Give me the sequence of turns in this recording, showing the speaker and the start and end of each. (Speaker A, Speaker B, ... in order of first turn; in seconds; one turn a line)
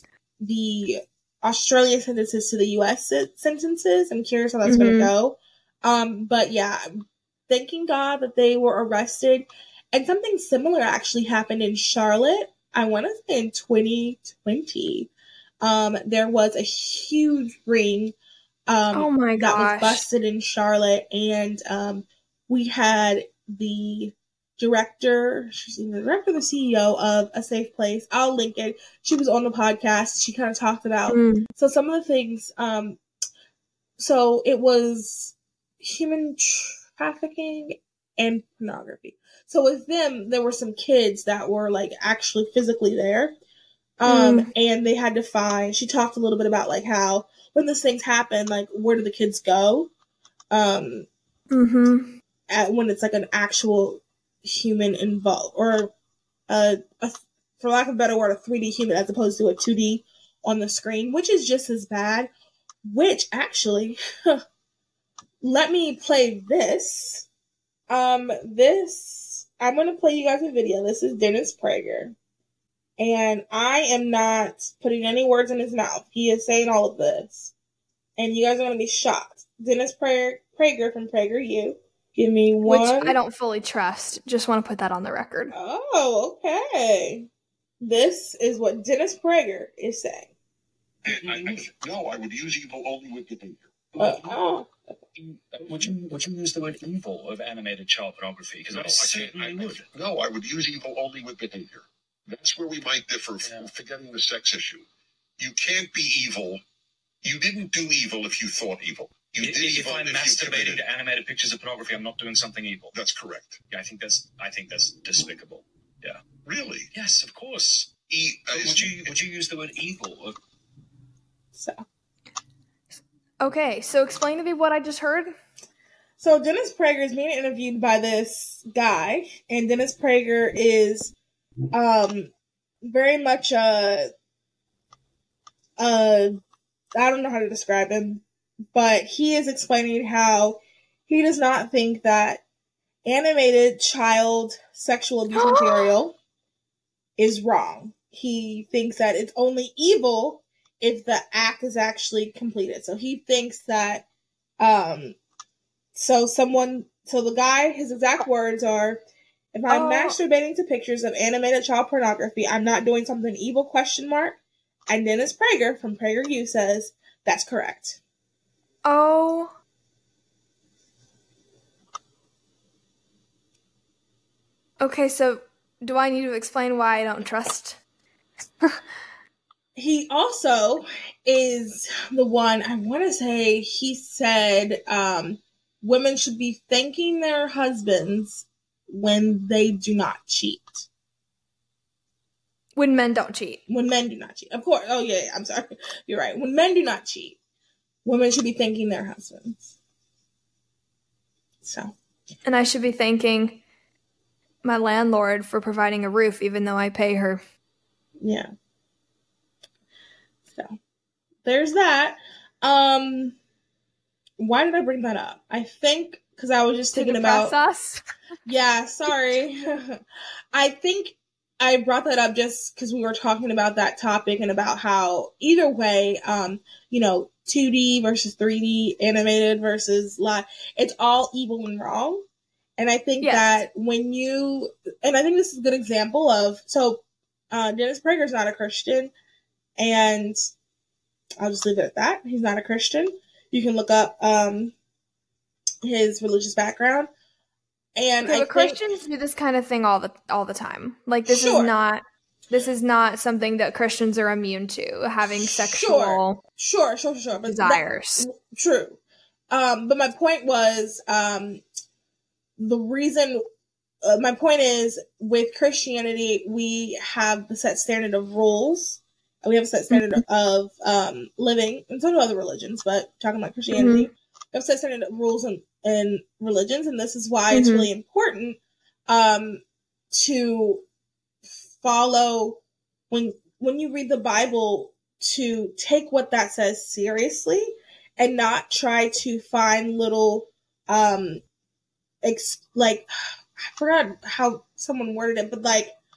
Speaker A: 0.4-15.1
Speaker B: 4.6-5.1
Speaker A: 15.6-18.1
Speaker A: 18.7-33.0
Speaker B: 18.9-20.0
Speaker B: 31.1-31.4
Speaker A: 34.0-43.3
Speaker A: 44.0-49.9
Speaker B: 44.0-44.5
Speaker A: 50.5-51.1
Speaker B: 51.5-52.1
Speaker A: 52.5-55.9
Speaker A: 56.5-62.3
Speaker A: 62.9-64.4
Speaker A: 65.4-67.2
Speaker A: 67.9-72.1
Speaker A: 73.0-77.5
Speaker A: 78.2-83.2
Speaker B: 82.6-85.5
Speaker A: 85.5-87.2
Speaker A: 87.8-90.3
Speaker C: 91.1-94.3
Speaker D: 91.2-91.6
Speaker A: 94.0-95.0
Speaker D: 95.2-99.9
Speaker C: 98.7-104.9
Speaker D: 103.4-103.7
Speaker C: 105.4-106.6
Speaker C: 107.2-110.8
Speaker D: 109.4-112.9
Speaker C: 112.9-113.6
Speaker D: 113.7-116.2
Speaker C: 116.4-116.9
Speaker D: 116.9-117.9
Speaker C: 118.1-119.2
Speaker D: 118.5-120.4
Speaker A: 121.5-121.8
Speaker B: 123.4-125.3
Speaker A: 126.2-131.1
Speaker A: 131.7-132.3
Speaker A: 132.8-134.1
Speaker A: 135.8-136.3
Speaker A: 136.9-142.4
Speaker A: 143.0-146.1
Speaker B: 145.3-145.9
Speaker A: 147.2-154.0
Speaker A: 154.6-155.2
Speaker A: 155.9-159.0
Speaker A: 159.5-168.0
Speaker B: 159.7-160.2
Speaker B: 168.8-169.5
Speaker B: 174.8-177.8
Speaker A: 179.8-190.9
Speaker B: 192.8-193.6
Speaker A: 193.7-197.4
Speaker A: 198.0-199.7
Speaker A: 201.6-201.9
Speaker B: 202.4-203.6
Speaker B: 204.6-207.4
Speaker A: 208.2-208.5
Speaker A: 211.4-213.3
Speaker A: 214.4-217.5
Speaker B: 216.9-218.0
Speaker A: 218.5-220.0
Speaker A: 220.5-232.2
Speaker A: 232.8-239.1
Speaker B: 233.2-233.6
Speaker A: 239.8-240.4
Speaker A: 241.4-244.7
Speaker A: 245.8-247.1
Speaker A: 247.9-248.8
Speaker B: 248.2-256.4
Speaker A: 251.2-251.7
Speaker A: 255.3-259.0
Speaker B: 257.4-258.2
Speaker A: 259.5-261.6
Speaker A: 262.6-263.4
Speaker A: 264.0-280.8
Speaker B: 269.9-270.2
Speaker B: 273.7-274.1
Speaker B: 277.5-277.9
Speaker A: 281.8-291.4
Speaker A: 292.2-293.1
Speaker A: 293.6-295.9